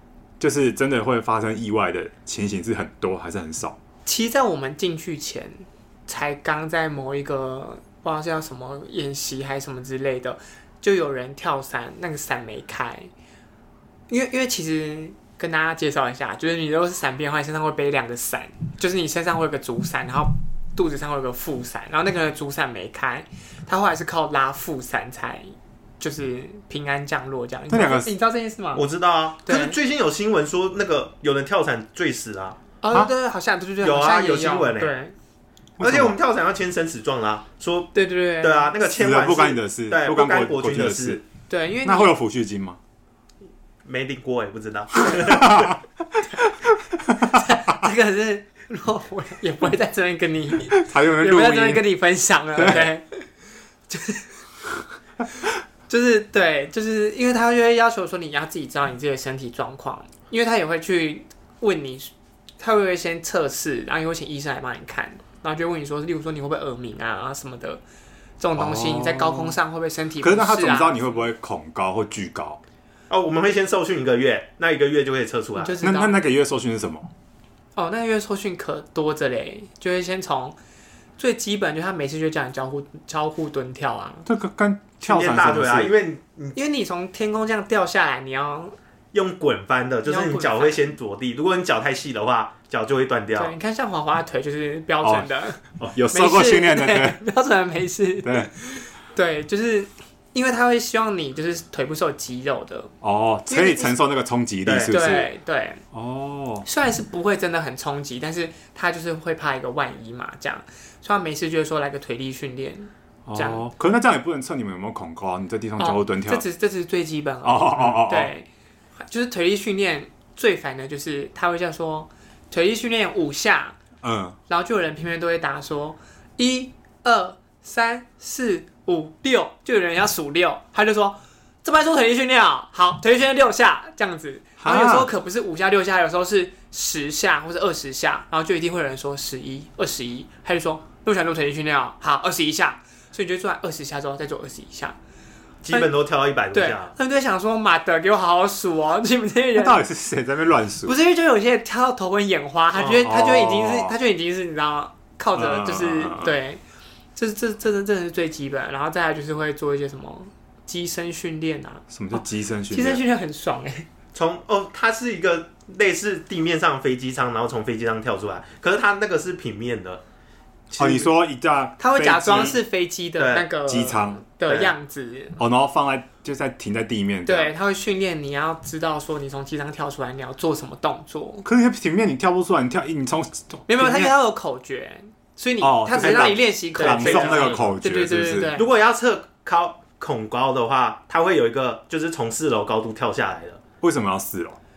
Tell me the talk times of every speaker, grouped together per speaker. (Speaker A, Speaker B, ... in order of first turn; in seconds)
Speaker A: 0.4-3.8, 27.7-28.1, 35.8-36.2, 39.0-41.2, 41.8-42.8, 45.2-46.8, 50.7-51.9, 52.5-52.9, 68.6-69.6, 70.2-72.6, 75.8-77.1, 84.3-85.9, 95.0-95.3, 95.9-97.2, 98.2-98.5, 103.0-105.3, 105.9-106.7, 113.3-116.4, 117.4-118.3, 124.0-124.4, 134.6-135.1, 149.6-151.0, 153.0-153.9, 155.4-156.4, 161.9-163.0, 170.8-172.6, 173.7-174.2, 175.4-177.5, 181.4-184.1, 185.6-188.5, 193.8-194.6
Speaker B: 4.0-13.1, 14.1-28.9, 29.4-29.8, 32.8-35.1, 37.9-38.7, 41.5-42.1, 47.2-53.3, 53.9-54.3, 55.9-67.8, 68.4-71.2, 75.6-76.2, 77.8-80.6, 81.2-84.3, 86.5-88.8, 90.1-90.8, 93.4-95.6, 96.1-102.9, 103.5-104.0, 104.9-105.8, 106.7-113.6, 115.8-118.5, 119.0-123.8, 124.5-145.0, 146.5-149.8, 150.8-156.6, 157.2-163.9, 171.8-175.4, 177.2-181.5, 183.7-188.7
Speaker C: 28.8-32.6, 33.8-34.9, 35.8-41.2, 43.9-45.7, 73.1-75.8, 85.0-86.6, 89.1-93.6, 104.7-104.9, 145.6-146.9, 152.8-153.1, 164.1-170.0, 170.7-171.1, 173.2-173.5, 174.5-174.7, 185.9-187.7, 188.6-193.6